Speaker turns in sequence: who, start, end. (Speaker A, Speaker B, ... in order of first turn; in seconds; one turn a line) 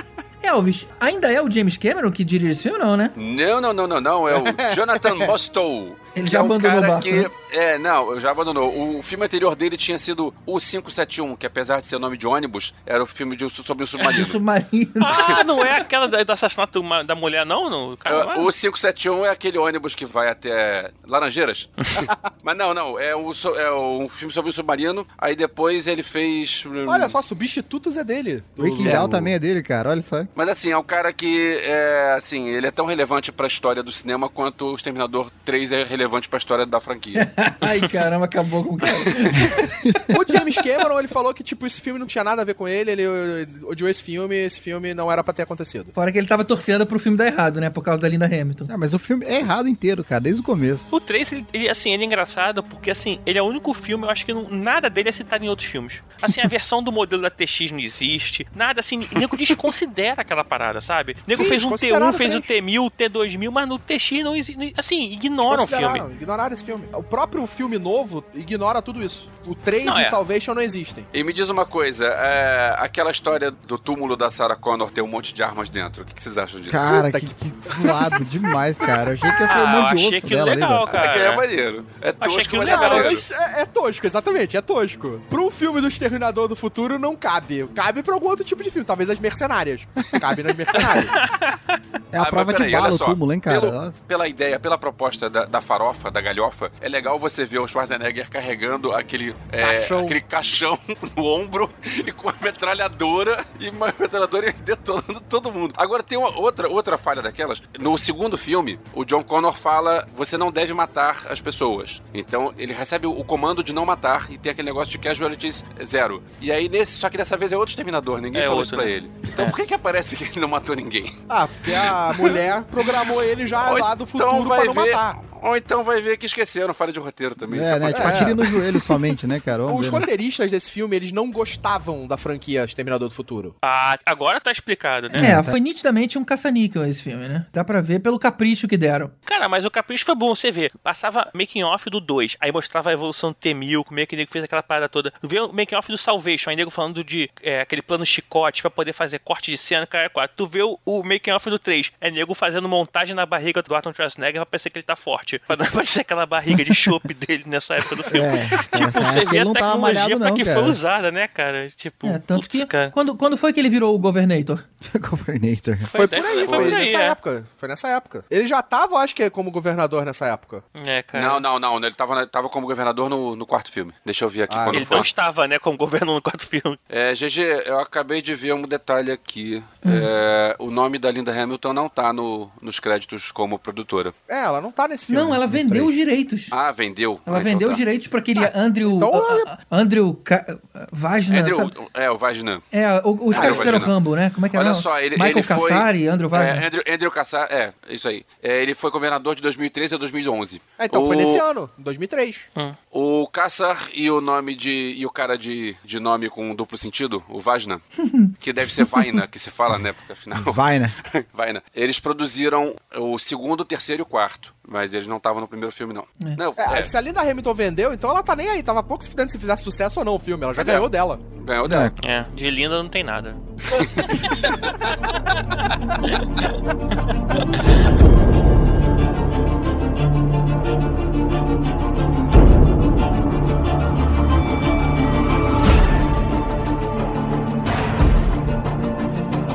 Speaker A: 0.4-3.1
Speaker B: 3.1-14.4
Speaker C: 4.3-5.3
Speaker A: 6.1-7.3
Speaker A: 14.0-15.4
Speaker D: 15.0-18.5
Speaker B: 15.1-15.4
Speaker B: 18.1-27.2
Speaker E: 26.9-29.3
Speaker C: 28.6-30.3
Speaker B: 28.8-29.1
Speaker B: 30.4-37.3
Speaker A: 37.1-39.7
Speaker E: 40.1-45.9
Speaker A: 45.9-48.7
Speaker C: 48.7-50.8
Speaker D: 50.9-66.0
Speaker E: 61.3-62.5
Speaker E: 65.4-71.1
Speaker D: 69.8-70.2
Speaker B: 71.1-77.0
Speaker C: 76.7-80.9
Speaker E: 76.8-78.1
Speaker D: 79.5-81.4
Speaker B: 80.9-83.2
Speaker D: 82.2-83.2
Speaker E: 82.6-91.1
Speaker D: 91.1-91.8
Speaker C: 92.1-94.0
Speaker B: 92.2-121.1
Speaker E: 99.6-100.2
Speaker D: 118.3-119.5
Speaker E: 121.3-125.2
Speaker B: 121.7-122.4
Speaker B: 123.6-128.5
Speaker C: 127.5-130.1
Speaker E: 127.9-128.5
Speaker E: 129.7-133.5
Speaker D: 133.6-135.3
Speaker C: 135.1-135.5
Speaker A: 135.1-139.1
Speaker D: 139.2-162.9
Speaker C: 158.1-160.8
Speaker A: 162.0-164.6
Speaker C: 164.8-165.9
Speaker D: 165.8-167.2
Speaker E: 165.9-170.6
Speaker B: 166.3-166.8
Speaker D: 170.7-171.4
Speaker B: 171.1-175.1
Speaker E: 174.5-175.1
Speaker D: 174.7-176.8
Speaker B: 176.9-184.1
Speaker E: 184.3-185.9
Speaker A: 185.1-186.5
Speaker B: 186.5-187.8
Speaker A: 187.3-191.7
Speaker E: 188.4-189.5
Speaker B: 191.3-192.6
Speaker A: 192.7-196.7
Speaker B: 193.3-193.9
Speaker E: 193.3-193.8
Speaker B: 194.5-201.4
Speaker E: 200.8-202.5
Speaker B: 202.9-207.8
Speaker A: 208.0-208.3
Speaker B: 208.4-216.9
Speaker C: 210.4-210.9
Speaker E: 216.6-221.2
Speaker B: 220.6-221.9
Speaker C: 221.6-221.9
Speaker D: 222.0-223.4
Speaker B: 223.7-224.3
Speaker D: 224.0-226.4